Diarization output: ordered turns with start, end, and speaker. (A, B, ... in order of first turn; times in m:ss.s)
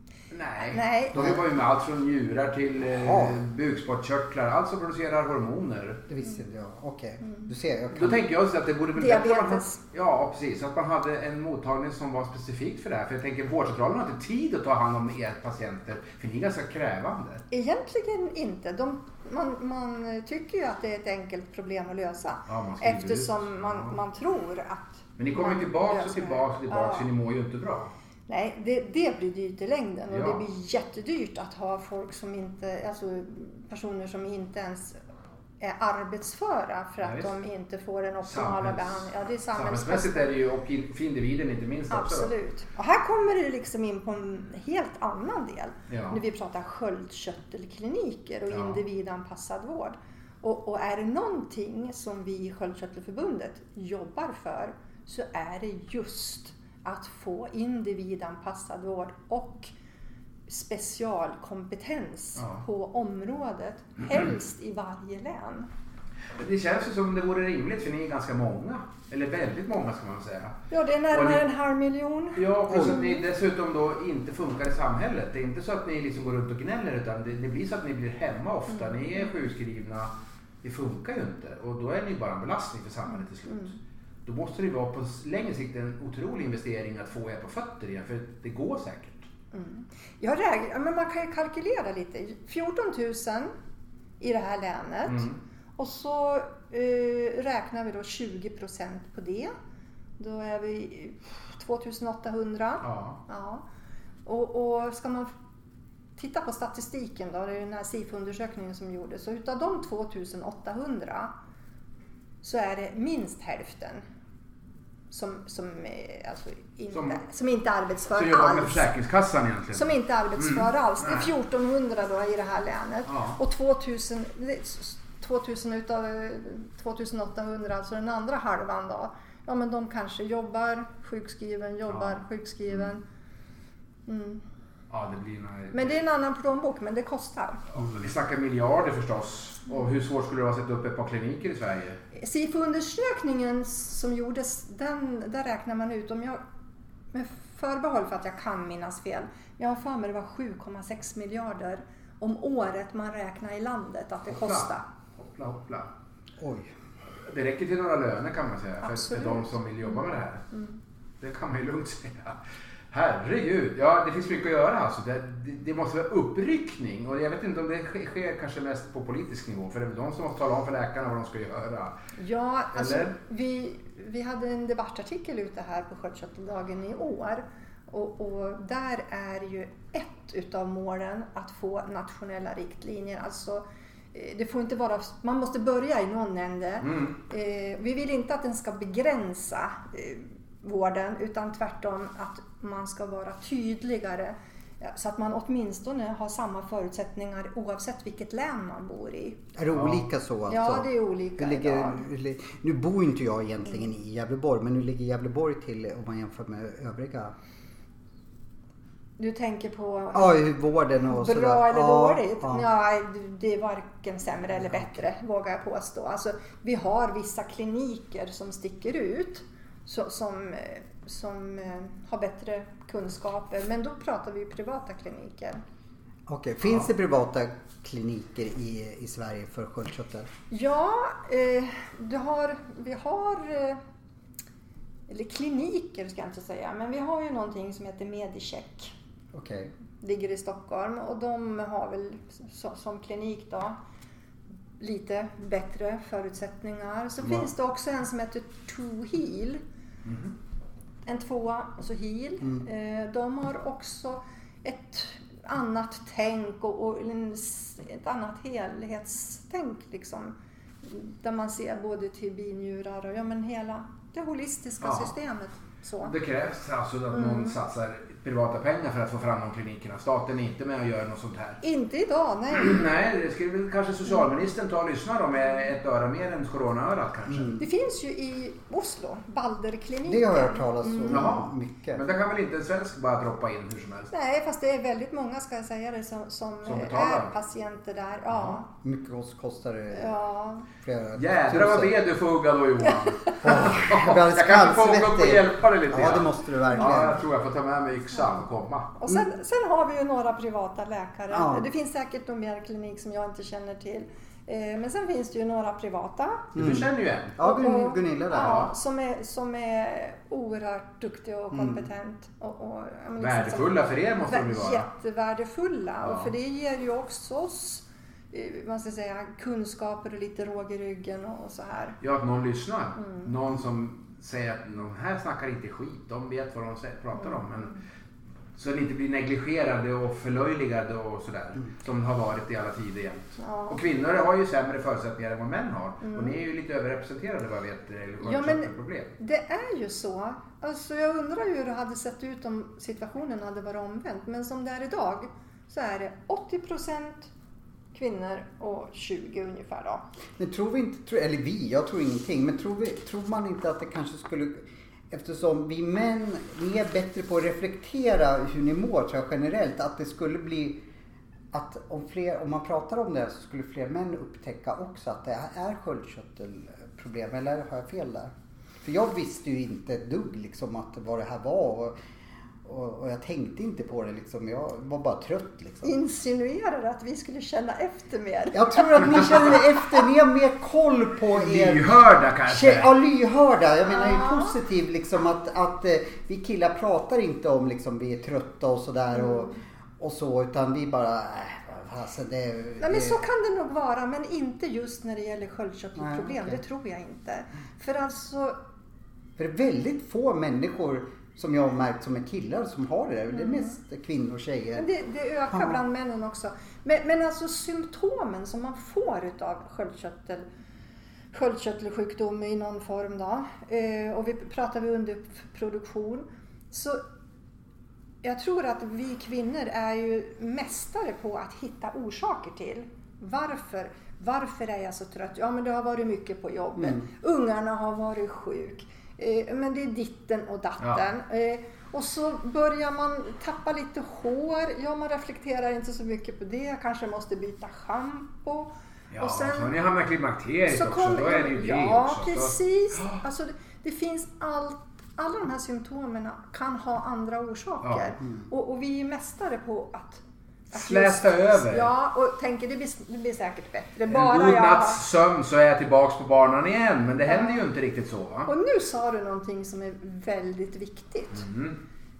0:00.3-0:06.0 A
0:00.6-0:01.3 B
0:02.9-0:03.4 C
0:06.1-0:08.3 C
0:07.9-0:17.4 A
0:09.0-0:09.8 B
0:17.5-0:27.1 B
0:22.5-0:24.0 A
0:25.2-0:27.9 A
0:28.3-0:35.0 B
0:30.1-0:30.4 A
0:35.6-0:40.3 B
0:37.0-0:37.4 A
0:38.2-0:42.3 A
0:41.9-0:59.7 B
0:45.9-0:46.2 A
0:48.5-0:48.8 A
1:00.5-1:05.7 B
1:02.4-1:02.6 A
1:06.4-1:10.6 A
1:10.7-1:13.2 B
1:11.1-1:11.4 A
1:12.4-1:20.1 A
1:18.7-1:19.3 B
1:20.6-1:29.3 A
1:23.1-1:23.8 B
1:29.5-1:33.5 B
1:34.2-1:39.5 B
1:35.1-1:35.4 A
1:40.2-1:43.6 B
1:42.8-1:43.2 A
1:44.3-1:45.3 B
1:46.2-1:51.3 B
1:52.4-1:54.0 B
1:55.1-1:58.9 B
1:56.9-1:57.2 A
1:58.1-2:01.3 A
1:59.7-2:13.0 B
2:03.1-2:03.4 A
2:14.1-2:14.4 B
2:14.9-2:16.0 A
2:15.7-2:17.6 B
2:17.7-2:22.0 A
2:22.1-2:26.4 B
2:27.1-2:34.8 B
2:34.3-2:35.9 A
2:36.4-2:36.7 C
2:37.2-2:40.4 A
2:38.8-2:40.8 B
2:41.2-2:42.4 A
2:42.9-2:52.0 A
2:52.2-3:19.5 B
2:52.8-2:53.2 A
3:06.8-3:07.2 A
3:19.6-3:27.4 C
3:19.7-3:20.0 A
3:20.5-3:22.0 B
3:29.2-3:30.4 B
3:30.1-3:32.6 C
3:31.1-3:45.6 B
3:46.3-3:50.3 C
3:50.5-3:53.8 B
3:55.1-3:59.0 B
3:59.3-3:59.7 C
4:00.0-4:03.8 B
4:04.8-4:09.6 B
4:10.1-4:10.3 A
4:11.1-4:26.1 B
4:24.8-4:25.1 A
4:26.0-4:31.6 A
4:27.1-4:27.6 B
4:31.6-4:32.9 B
4:32.5-4:37.6 A
4:37.3-4:37.6 C
4:37.6-4:41.4 B
4:40.1-4:42.0 C
4:41.1-4:44.1 A
4:44.1-4:48.7 B
4:46.6-4:47.3 A
4:48.3-4:48.6 A
4:48.8-4:50.2 C
4:49.9-4:50.7 B
4:50.8-4:52.0 C
4:51.2-4:59.0 A
4:53.2-4:53.6 B
4:53.4-4:57.2 C
4:56.7-4:57.2 B
4:59.0-5:06.5 B
5:01.3-5:01.7 C
5:06.6-5:07.4 A
5:06.6-5:08.7 C
5:07.4-5:22.0 B
5:08.3-5:08.7 A
5:11.5-5:11.9 C
5:13.2-5:14.9 A
5:16.0-5:16.3 A
5:22.0-5:27.7 A
5:23.0-5:23.3 B
5:27.2-5:27.8 B
5:28.6-5:39.1 A
5:33.4-5:33.8 B
5:36.0-5:36.4 B
5:38.2-5:47.3 B
5:47.9-5:50.0 B
5:50.4-6:00.8 C
6:01.5-6:08.3 C
6:08.8-6:12.0 C
6:12.6-6:16.0 C
6:15.8-6:20.0 B
6:18.5-6:21.8 C
6:21.3-6:22.9 A
6:22.5-6:33.2 C
6:23.9-6:24.6 B
6:29.1-6:29.6 B
6:32.8-6:38.6 B
6:36.0-6:36.6 C
6:39.4-6:44.9 C
6:43.3-6:43.8 B
6:44.8-6:50.5 B
6:45.5-6:45.8 C
6:51.3-6:57.0 B
6:58.2-7:19.8 B
7:06.8-7:07.1 C
7:10.8-7:11.0 A
7:19.1-7:23.2 A
7:20.7-7:35.0 B
7:30.7-7:31.9 A
7:34.1-7:38.5 A
7:37.2-7:37.6 B
7:38.5-7:41.5 B
7:41.4-7:41.8 A